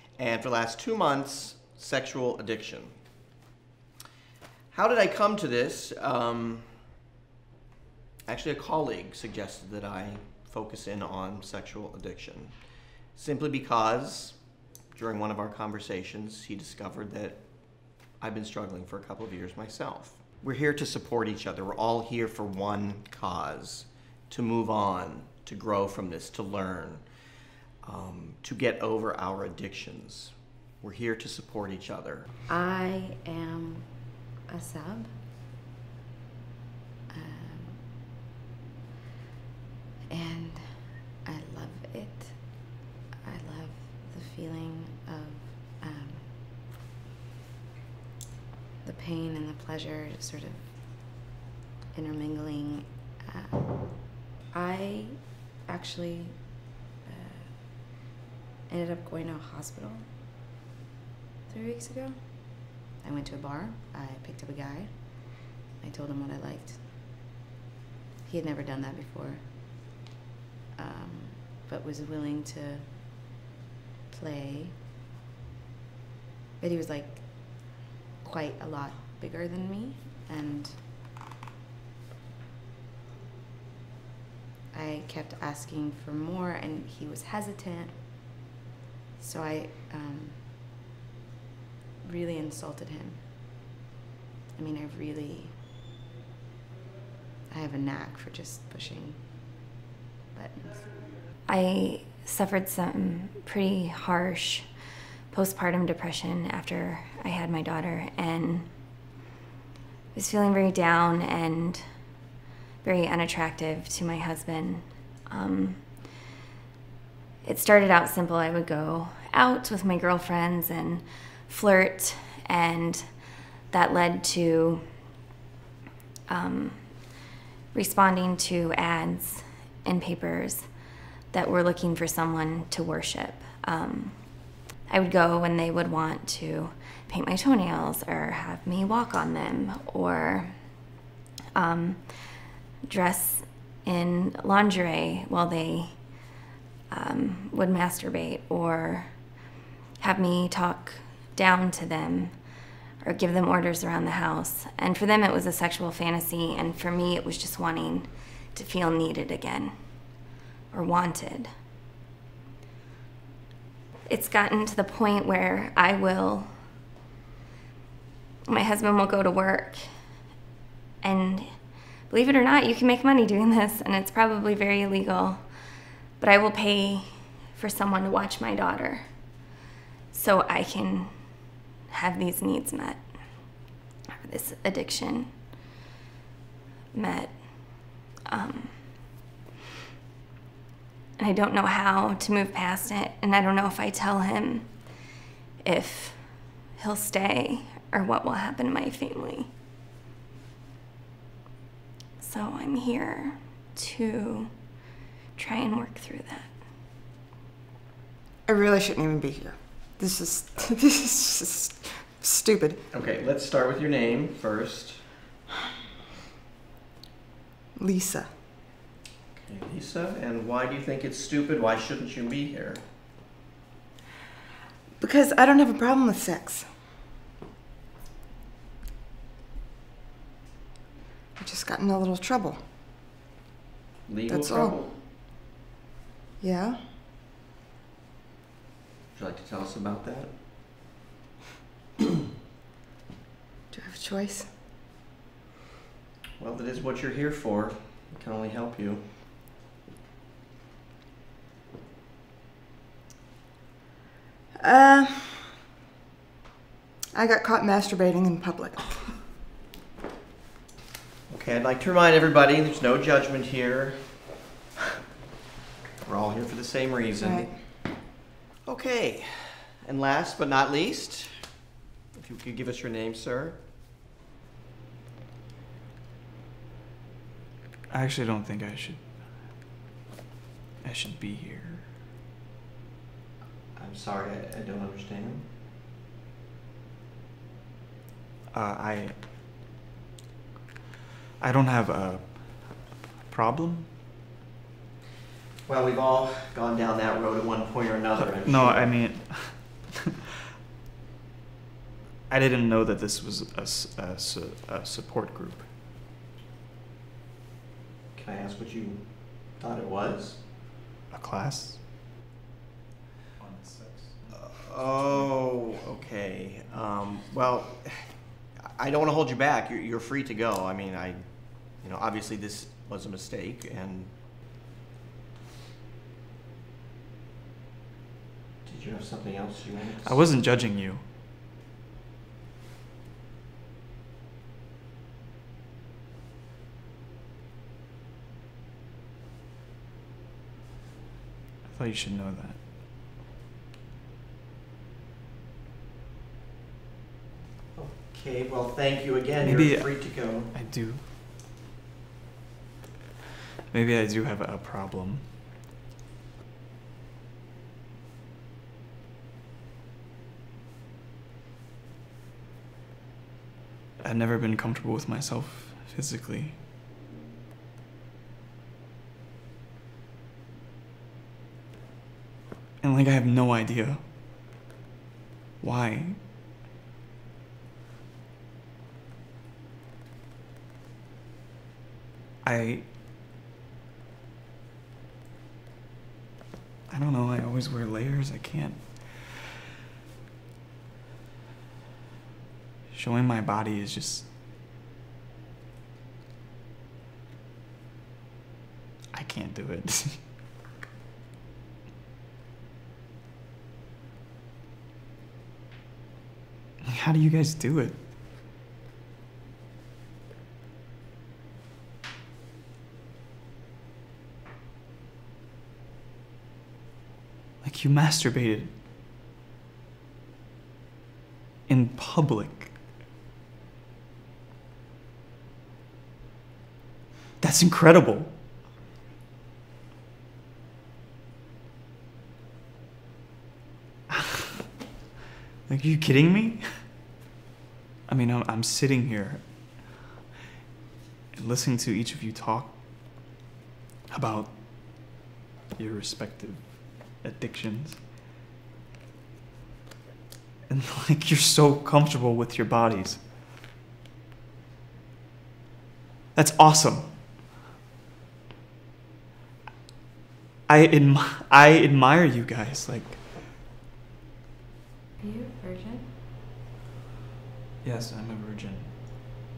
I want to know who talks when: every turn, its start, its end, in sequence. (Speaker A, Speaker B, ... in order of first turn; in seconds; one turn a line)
Speaker A: 0.2-3.0
Speaker A: 4.7-6.7
Speaker A: 8.3-12.5
Speaker A: 13.2-14.4
Speaker A: 14.9-17.4
Speaker A: 18.0-27.1
Speaker A: 27.8-32.3
Speaker B: 32.5-35.1
Speaker B: 37.1-37.8
Speaker B: 40.1-46.3
Speaker B: 48.8-50.7
Speaker B: 51.9-57.9
Speaker B: 58.7-60.1
Speaker B: 61.5-66.8
Speaker B: 68.2-69.5
Speaker B: 70.8-72.9
Speaker B: 74.1-74.8
Speaker B: 76.6-80.8
Speaker B: 84.7-88.0
Speaker B: 89.2-90.5
Speaker B: 92.0-93.2
Speaker B: 94.6-95.6
Speaker B: 97.5-99.6
Speaker B: 100.3-101.1
Speaker C: 101.5-108.7
Speaker C: 110.1-112.1
Speaker C: 112.8-116.1
Speaker C: 117.4-124.8
Speaker C: 126.3-130.7
Speaker C: 131.3-140.7
Speaker C: 141.6-146.3
Speaker C: 146.9-149.3
Speaker C: 150.0-159.7
Speaker C: 160.7-161.5
Speaker C: 164.1-166.5
Speaker C: 168.5-170.2
Speaker C: 171.0-179.1
Speaker C: 180.1-185.3
Speaker C: 186.9-189.2
Speaker C: 191.2-195.0
Speaker C: 195.6-199.5
Speaker C: 202.2-204.6
Speaker C: 205.3-206.6
Speaker D: 208.5-212.8
Speaker A: 212.9-215.0
Speaker D: 217.8-218.3
Speaker A: 219.3-222.8
Speaker D: 225.0-226.7
Speaker D: 231.4-232.6
Speaker A: 234.1-235.0
Speaker D: 234.3-234.8
Speaker D: 236.4-236.8
Speaker A: 239.1-240.3
Speaker D: 243.7-244.5
Speaker A: 246.4-249.0
Speaker D: 254.6-255.5
Speaker D: 257.1-259.1
Speaker A: 261.3-264.4
Speaker A: 266.0-267.5
Speaker D: 267.2-267.6
Speaker A: 268.6-271.5
Speaker A: 272.1-273.6
Speaker E: 277.9-279.2
Speaker E: 280.8-281.9
Speaker A: 283.8-285.4
Speaker E: 288.5-289.2
Speaker E: 291.4-293.9
Speaker A: 295.6-299.0
Speaker E: 298.2-300.0
Speaker E: 302.3-305.7
Speaker A: 308.1-310.4
Speaker E: 311.1-311.8
Speaker E: 313.4-314.5
Speaker A: 314.3-324.1
Speaker A: 328.6-330.2
Speaker E: 330.0-331.0
Speaker E: 341.6-342.6
Speaker A: 347.8-350.5
Speaker E: 349.4-351.0
Speaker E: 353.7-355.2
Speaker E: 364.0-366.6
Speaker E: 372.8-374.1
Speaker E: 375.6-376.2
Speaker E: 382.4-382.9
Speaker E: 386.9-389.3
Speaker E: 392.9-394.3
Speaker E: 399.1-400.2
Speaker E: 406.8-408.0
Speaker E: 417.6-418.7
Speaker E: 421.7-422.7
Speaker E: 427.4-428.4
Speaker E: 435.7-436.9
Speaker E: 438.1-440.0
Speaker E: 441.3-443.2
Speaker E: 444.1-445.2
Speaker E: 445.8-448.0
Speaker E: 450.7-453.2
Speaker E: 456.4-457.2
Speaker E: 460.7-463.2
Speaker B: 465.2-466.1
Speaker E: 467.8-468.9